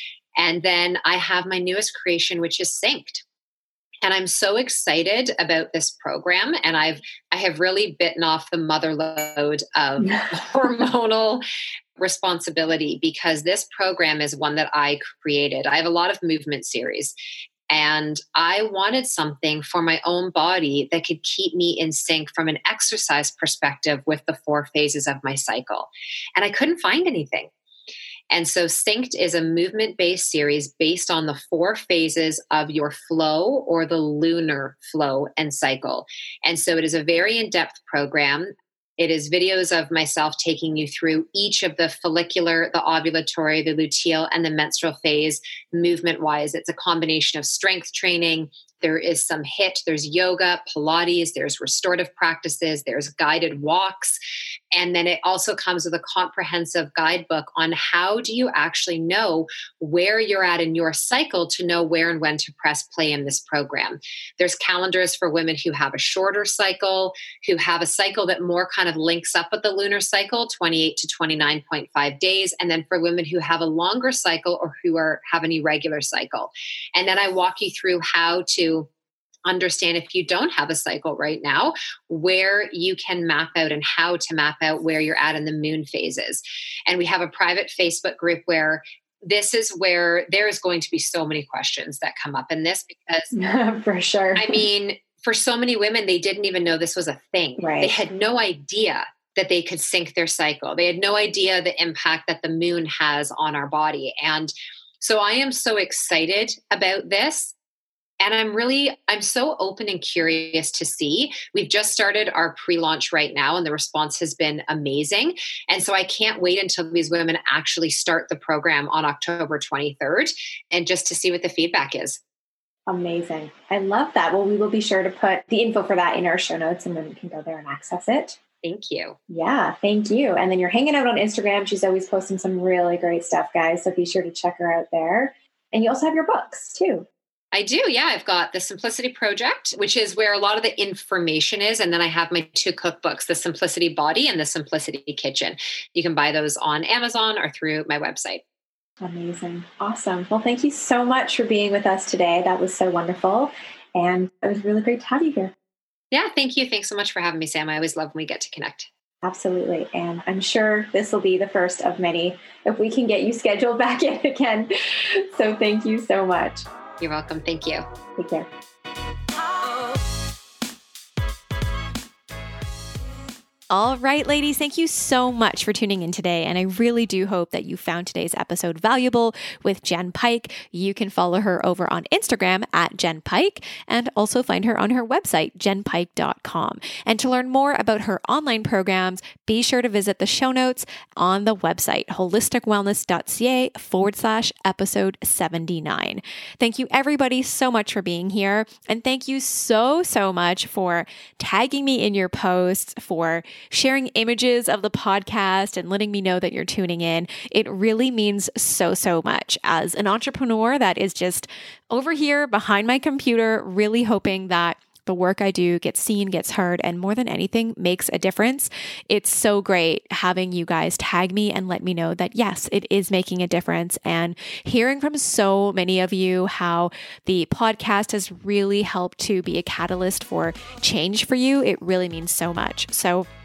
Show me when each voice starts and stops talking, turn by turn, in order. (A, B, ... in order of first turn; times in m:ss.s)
0:00.4-0:03.2 A
0:04.0-0:11.4 A
0:12.0-0:17.1 A
0:17.7-0:27.5 A
0:28.3-0:54.2 A
0:54.7-1:18.9 A
1:19.4-1:33.3 A
1:33.3-1:34.6 B
1:34.4-1:47.5 A
1:37.6-1:38.0 B
1:48.2-2:02.2 A
2:02.9-2:08.4 B
2:08.6-2:09.2 A
2:09.3-2:17.0 B
2:17.5-2:28.4 A
2:29.0-2:35.5 B
2:36.1-2:38.9 A
2:39.2-2:46.6 B
2:47.0-2:47.8 A
2:48.2-2:48.5 B
2:53.7-3:53.2 C